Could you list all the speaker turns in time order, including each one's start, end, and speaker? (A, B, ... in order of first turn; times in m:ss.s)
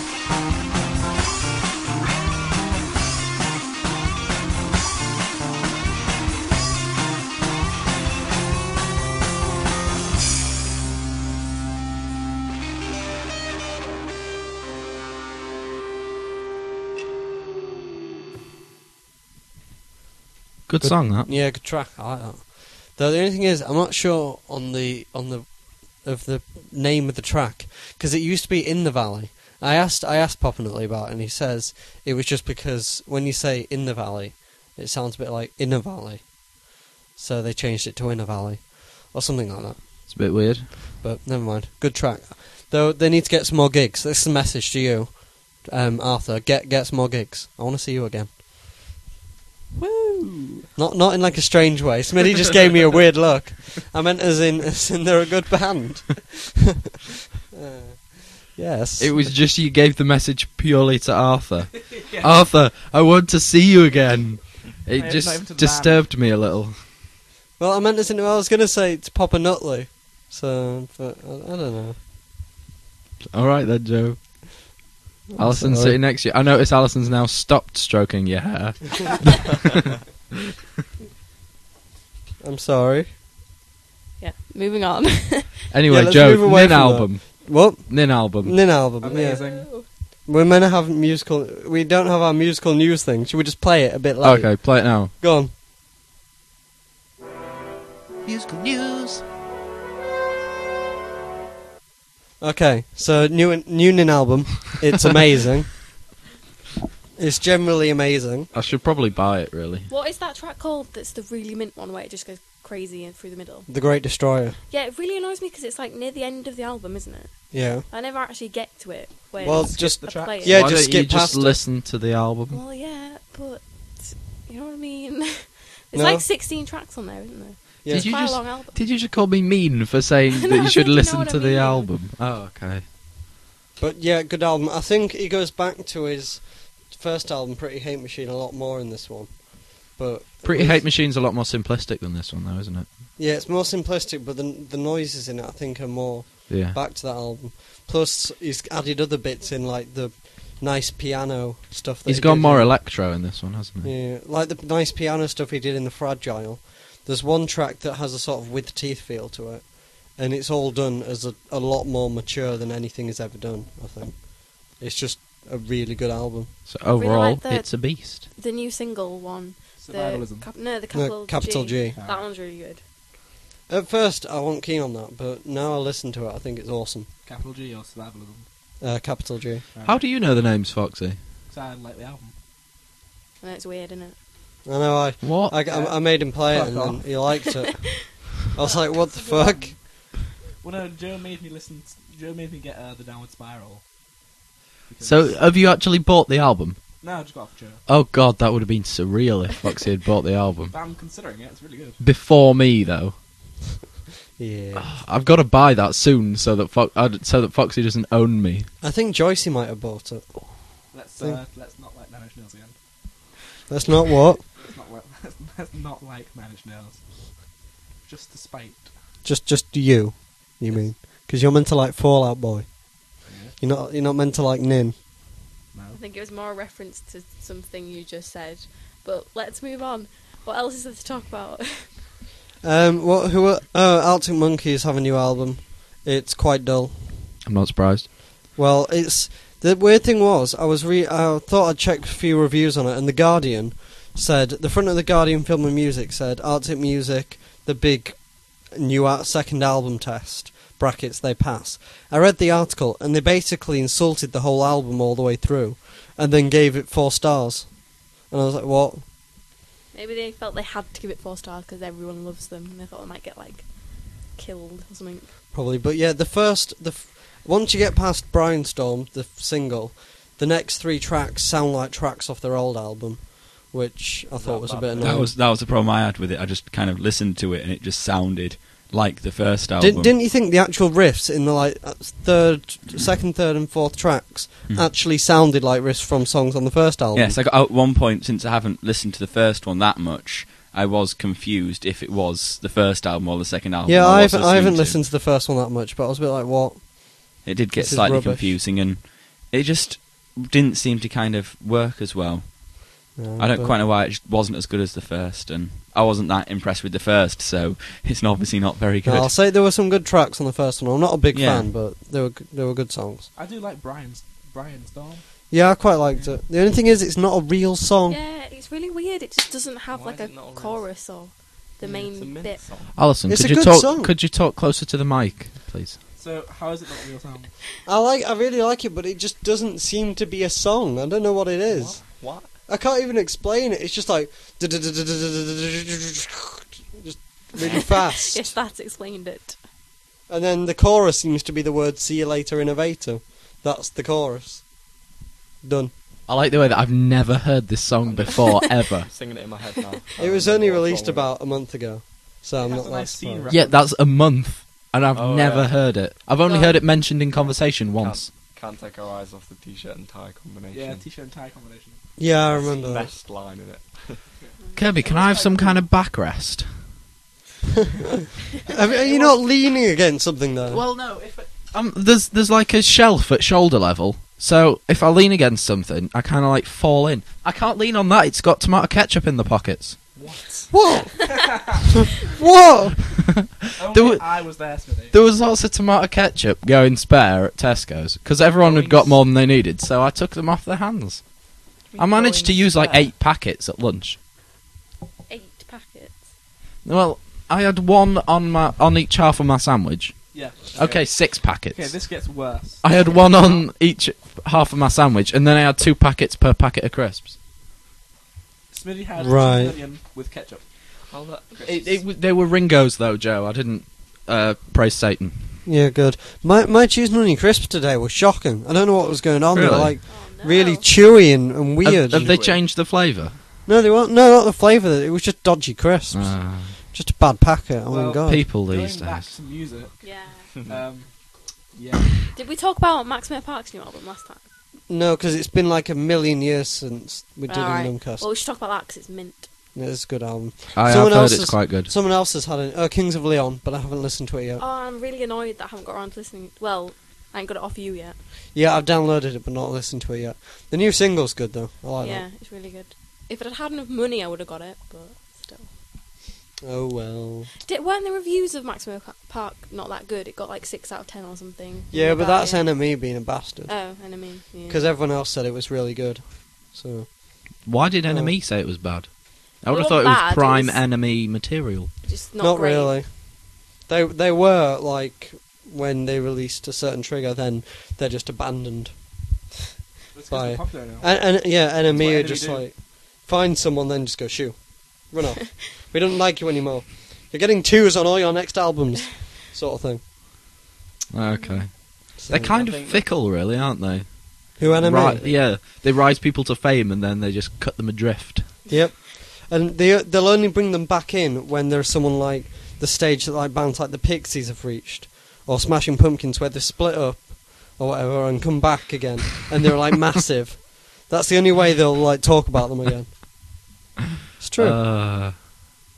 0:20.7-0:21.3 A
0:20.8-0:40.4 B
0:40.1-0:40.7 A
0:41.0-0:48.4 B
0:49.7-0:50.6 C
0:50.8-0:56.7 B
0:57.5-0:59.3 B
0:59.0-1:06.8 A
1:04.9-1:06.1 C
1:07.6-1:12.0 B
1:13.3-1:14.4 A
1:15.3-1:16.0 B
1:15.4-1:19.7 A
1:22.4-1:23.1 B
1:24.2-1:25.7 D
1:25.7-1:28.6 A
1:25.9-1:29.4 B
1:29.0-1:29.7 C
1:29.1-1:29.9 D
1:30.2-1:35.5 B
1:34.2-1:35.1 A
1:38.2-1:39.2 A
1:42.4-1:46.0 B
1:47.2-1:48.5 B
1:48.5-1:49.9 A
1:49.9-1:53.7 D
1:53.7-1:54.6 B
1:54.7-2:00.6 D
1:57.5-1:57.8 B
1:59.3-2:00.4 C
1:59.4-2:01.6 B
2:00.4-2:02.6 A
2:02.5-2:08.8 D
2:05.9-2:06.3 B
2:07.8-2:08.1 B
2:07.9-2:12.8 A
2:10.3-2:11.9 D
2:13.8-2:20.8 B
2:20.4-2:23.0 A
2:23.2-2:32.8 B
2:26.5-2:26.8 A
2:32.0-2:33.9 A
2:33.8-2:46.5 B
2:46.6-2:48.2 A
2:46.9-2:52.8 D
2:49.8-2:50.5 C
2:50.9-2:52.0 B
2:51.9-2:52.2 C
2:53.7-2:57.1 B
2:57.2-2:58.4 C
2:58.8-2:59.6 B
2:59.7-3:00.0 C
2:59.8-3:01.2 A
3:01.5-3:02.3 C
3:03.4-3:04.2 D
3:04.6-3:09.8 B
3:05.2-3:05.5 A
3:05.6-3:07.1 C
3:07.4-3:08.0 D
3:08.6-3:09.0 D
3:09.2-3:09.8 C
3:10.6-3:13.8 C
3:14.9-3:15.4 C
3:15.0-3:16.8 A
3:17.0-3:17.8 C
3:17.9-3:20.7 A
3:20.7-3:22.0 C
3:22.0-3:23.1 A
3:24.4-3:24.9 B
3:24.7-3:28.7 A
3:28.8-3:30.6 B
3:30.9-3:32.7 C
3:33.7-3:34.4 B
3:34.6-3:37.4 C
3:38.0-3:38.9 C
3:39.2-3:45.0 B
3:43.2-3:43.5 C
3:45.7-3:46.0 C
3:45.9-3:52.0 D
3:52.6-3:57.3 B
3:57.4-3:58.1 A
3:58.5-4:19.1 B
4:19.9-4:25.3 D
4:25.5-4:35.4 B
4:34.3-4:35.3 E
4:35.0-4:40.1 F
4:39.8-4:47.4 B
4:47.1-4:55.0 F
4:53.8-4:58.9 B
4:57.4-5:09.3 F
5:03.1-5:03.7 B
5:09.0-5:13.3 B
5:11.3-5:11.7 F
5:13.4-5:15.2 C
5:15.5-5:18.2 B
5:18.1-5:22.6 D
5:19.9-5:21.0 E
5:21.8-5:23.0 E
5:22.9-5:26.0 A
5:23.3-5:24.1 B
5:26.2-5:27.5 C
5:27.8-5:32.1 B
5:31.7-5:32.5 E
5:32.6-5:38.6 B
5:37.6-5:39.6 D
5:40.3-5:45.0 B
5:45.6-5:45.9 B
5:46.3-5:49.1 A
5:48.0-5:48.4 E
5:49.1-5:51.3 E
5:50.2-5:53.5 B
5:52.6-5:53.8 C
5:53.5-5:58.3 A
5:55.1-5:55.8 E
5:56.4-5:56.8 D
5:57.8-6:01.0 E
6:00.7-6:02.0 C
6:02.2-6:03.1 B
6:02.4-6:04.3 E
6:04.4-6:05.5 C
6:04.6-6:05.7 D
6:04.8-6:06.8 A
6:08.7-6:10.8 B
6:10.7-6:20.0 A
6:20.2-6:20.5 C
6:20.7-6:21.7 B
6:21.3-6:21.8 C
6:22.2-6:23.2 B
6:23.3-6:24.6 A
6:23.8-6:25.1 C
6:25.1-6:34.2 A
6:28.6-6:29.2 C
6:31.9-6:33.0 D
6:35.3-6:36.2 D
6:36.8-6:42.1 A
6:40.3-6:43.6 C
6:42.8-6:47.3 A
6:48.7-6:50.6 C
6:49.2-6:49.8 B
6:51.1-6:52.0 E
6:51.6-6:55.6 A
6:55.6-7:02.4 B
6:59.5-7:00.0 A
7:00.0-7:00.9 D
7:01.8-7:03.4 A
7:02.1-7:02.6 E
7:03.6-7:08.4 B
7:06.1-7:06.8 A
7:07.9-7:11.1 C
7:08.3-7:09.3 A
7:10.0-7:10.5 D
7:11.7-7:12.2 C
7:12.3-7:14.4 D
7:14.9-7:18.3 B
7:17.5-7:19.5 D
7:19.7-7:24.6 B
7:20.8-7:21.9 A
7:24.6-7:28.2 D
7:28.5-7:32.3 B
7:32.0-7:35.7 D
7:36.6-7:37.5 B
7:37.6-7:42.8 D
7:41.9-7:48.3 B
7:43.6-7:44.9 D
7:47.6-7:51.9 A
7:49.7-7:50.8 D
7:52.0-7:53.0 D
7:52.4-7:59.2 B
8:00.1-8:02.7 C
8:00.3-8:10.0 B
8:11.1-8:18.5 A
8:11.3-8:11.7 D
8:12.2-8:12.5 B
8:12.5-8:13.0 E
8:14.6-8:15.2 B
8:14.6-8:15.3 E
8:18.7-8:33.2 B
8:34.4-8:34.8 B
8:34.6-8:35.6 A